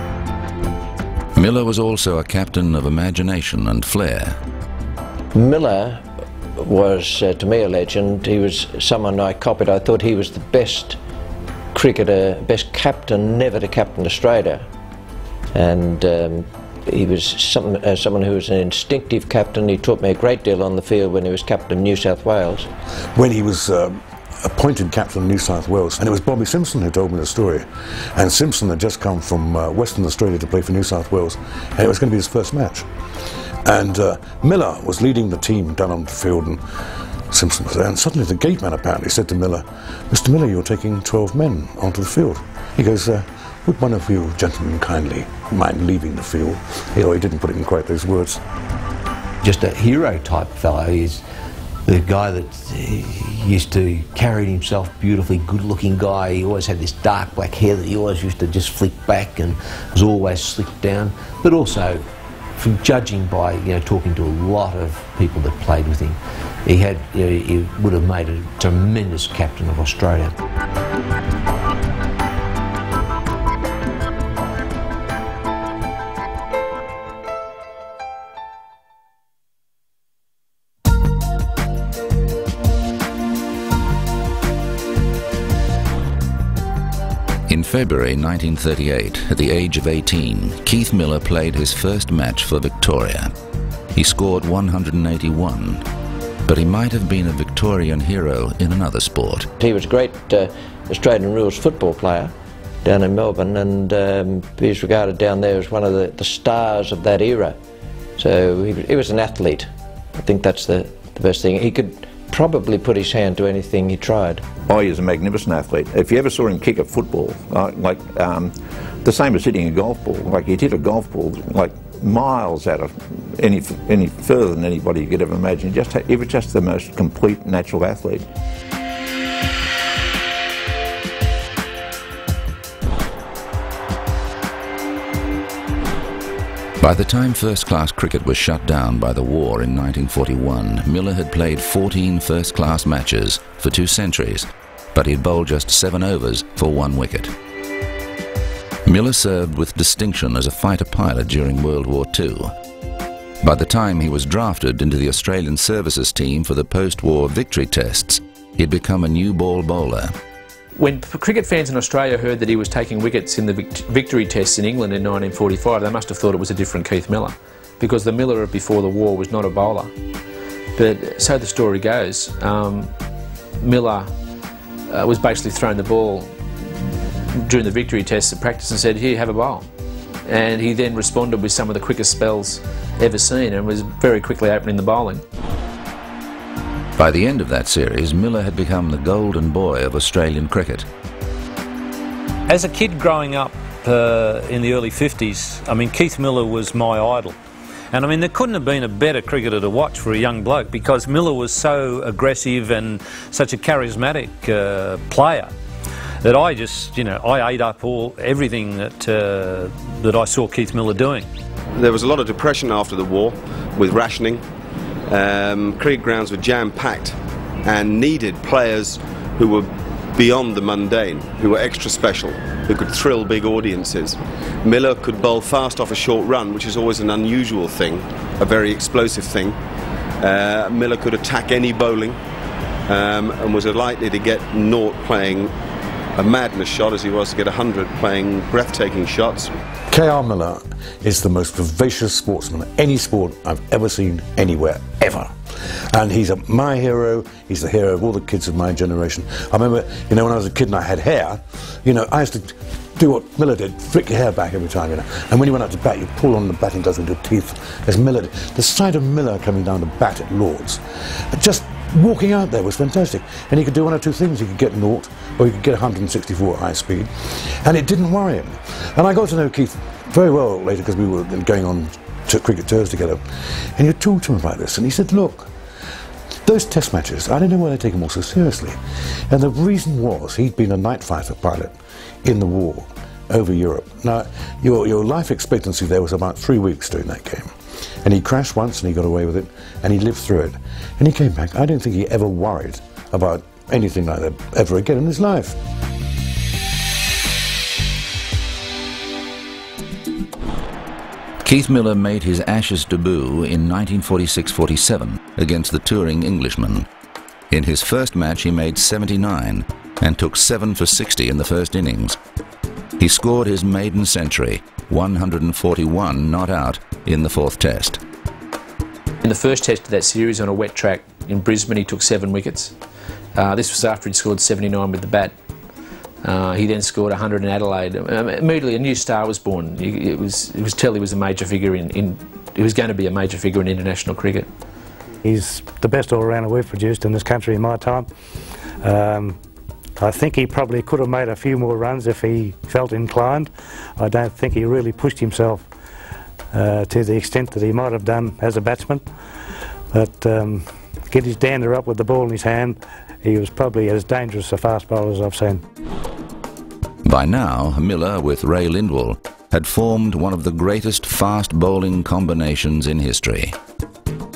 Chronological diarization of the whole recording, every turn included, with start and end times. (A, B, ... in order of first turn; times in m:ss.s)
0:01.4-0:04.4 A
0:05.3-0:06.0 B
0:06.6-0:11.0 B
0:11.7-0:14.6 B
0:15.6-0:22.7 B
0:23.2-0:32.9 C
0:33.6-0:36.6 C
0:37.3-0:48.4 C
0:49.4-0:51.2 D
0:51.9-1:10.4 D
1:27.5-1:33.3 A
1:34.0-1:35.9 A
1:36.5-1:39.5 A
1:39.6-1:42.3 B
1:42.8-1:47.6 B
1:48.2-1:54.4 B
1:54.7-2:08.3 E
2:16.8-2:27.3 A
2:28.8-2:32.5 A
2:33.4-2:40.1 A
2:40.8-2:49.9 F
2:50.8-2:52.9 F
2:53.6-2:54.1 F
2:54.9-2:59.7 F
3:00.2-3:05.2 F
3:07.0-3:10.9 A
3:12.5-3:17.4 G
3:17.9-3:25.5 G
3:26.2-3:31.3 G
3:31.8-3:34.4 H
3:35.1-3:49.6 H
3:50.2-3:52.2 H
3:52.9-3:55.5 H
3:56.2-3:59.5 H
3:59.9-4:35.5 C
4:36.4-4:55.6 C
5:01.4-5:06.9 A
5:07.5-5:12.2 A
5:13.0-5:18.0 A
5:19.2-5:22.8 F
5:23.4-5:25.4 F
5:26.2-5:34.5 F
5:35.2-5:38.1 I
5:38.8-5:39.4 I
5:40.0-5:45.7 I
5:46.5-5:49.0 I
5:49.9-5:55.6 I
5:57.0-6:03.6 A